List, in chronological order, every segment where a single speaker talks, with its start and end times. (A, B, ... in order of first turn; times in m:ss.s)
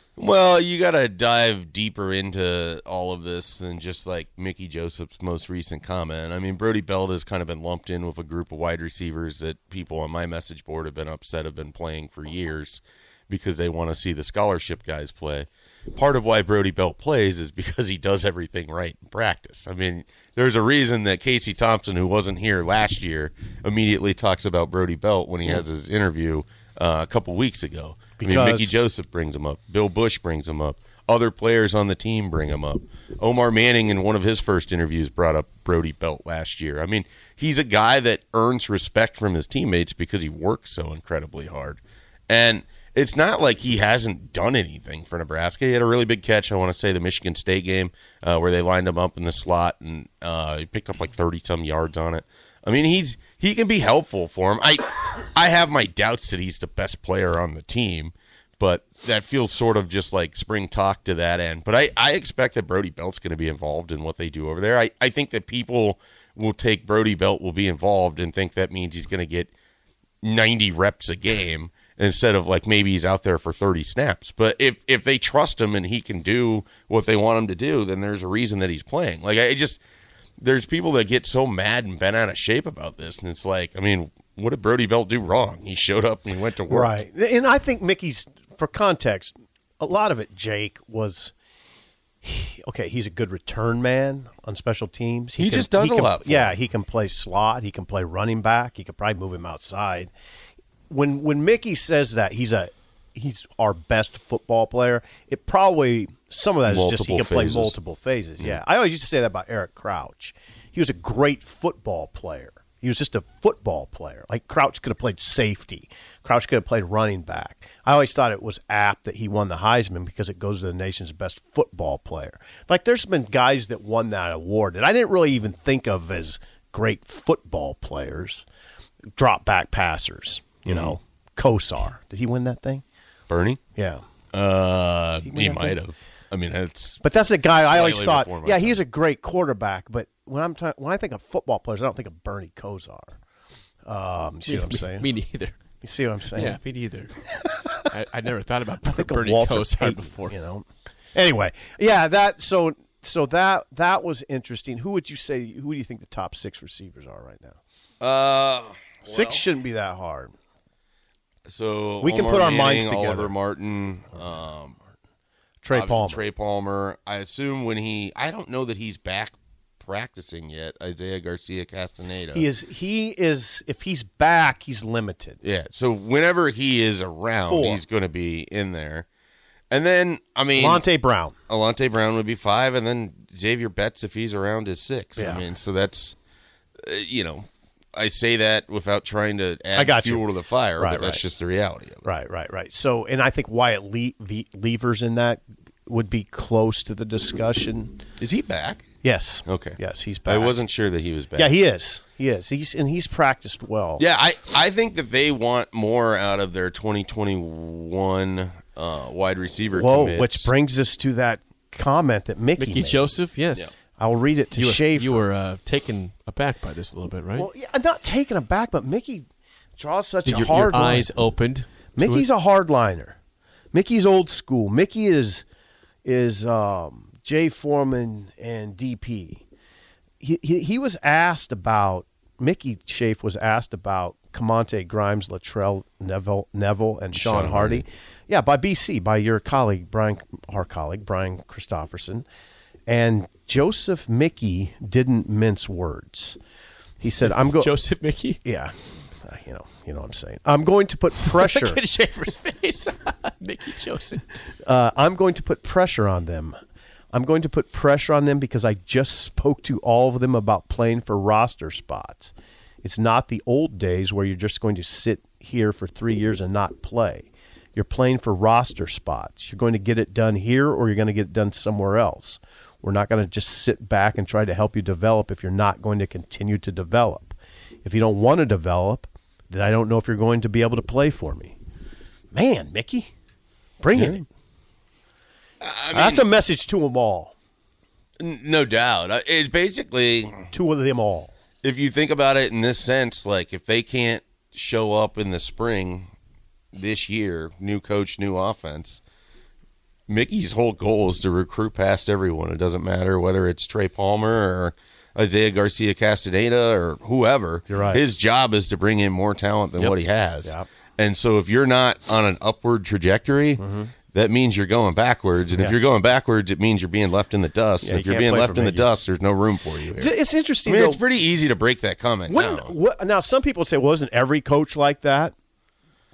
0:00.2-1:09.5 A
0:28.2-0:28.7 B
1:10.2-1:19.8 A
1:20.4-1:26.9 A
1:26.7-1:31.3 B
1:32.2-1:40.1 B
1:35.4-1:36.5 A
1:40.9-2:08.4 B
1:46.6-1:47.7 A
2:09.1-2:12.8 B
2:10.6-2:11.0 A
2:13.3-2:13.6 A
2:13.8-2:14.0 B
2:14.3-2:17.0 A
2:15.2-2:15.8 B
2:17.0-2:23.2 B
2:17.7-2:18.8 A
2:23.8-2:25.1 B
2:24.4-2:25.5 C
2:25.8-2:26.6 B
2:26.3-2:27.1 C
2:27.2-2:27.9 B
2:27.9-2:30.4 C
2:28.8-2:37.6 B
2:38.0-2:39.4 A
2:39.0-2:40.3 B
2:41.5-2:44.8 A
2:42.0-2:43.3 B
2:45.6-2:46.2 B
2:45.7-2:52.5 A
2:52.3-2:55.4 B
2:55.4-2:59.0 A
2:57.5-2:57.8 B
2:59.7-3:00.8 A
3:00.5-3:01.3 B
3:01.5-3:06.2 A
3:05.2-3:05.4 B
3:06.8-3:12.0 A
3:09.7-3:10.2 B
3:10.8-3:11.2 B
3:12.0-3:18.0 B
3:18.2-3:18.8 A
3:19.0-3:20.6 B
3:19.5-3:21.5 A
3:21.3-3:24.0 B
3:24.0-3:30.5 A
3:29.7-3:33.1 B
3:32.6-3:33.7 C
3:33.9-3:35.2 B
3:34.5-3:37.5 C
3:37.4-3:41.1 B
3:40.2-3:42.2 C
3:42.0-3:43.2 B
3:43.7-3:45.4 B
3:46.0-3:49.4 B
3:50.2-4:02.2 B
3:57.1-3:57.8 A
4:02.9-4:06.4 B
4:07.0-4:07.7 B
4:07.2-4:08.4 C
4:08.4-4:11.8 B
4:11.2-4:14.2 C
4:14.6-4:16.6 B
4:17.1-4:41.6 B
4:42.3-4:43.1 B
4:43.8-4:44.3 B
4:43.9-4:44.2 A
4:45.6-4:46.2 A
4:45.9-4:47.3 B
4:48.2-4:50.5 A
4:50.5-4:51.3 B
4:51.6-4:56.1 A
4:56.7-4:59.0 A
5:00.1-5:20.1 A
5:07.7-5:08.0 B
5:13.6-5:13.9 B
5:17.8-5:18.9 B
5:19.9-5:21.0 B
5:20.6-5:22.7 A
5:22.3-5:25.3 B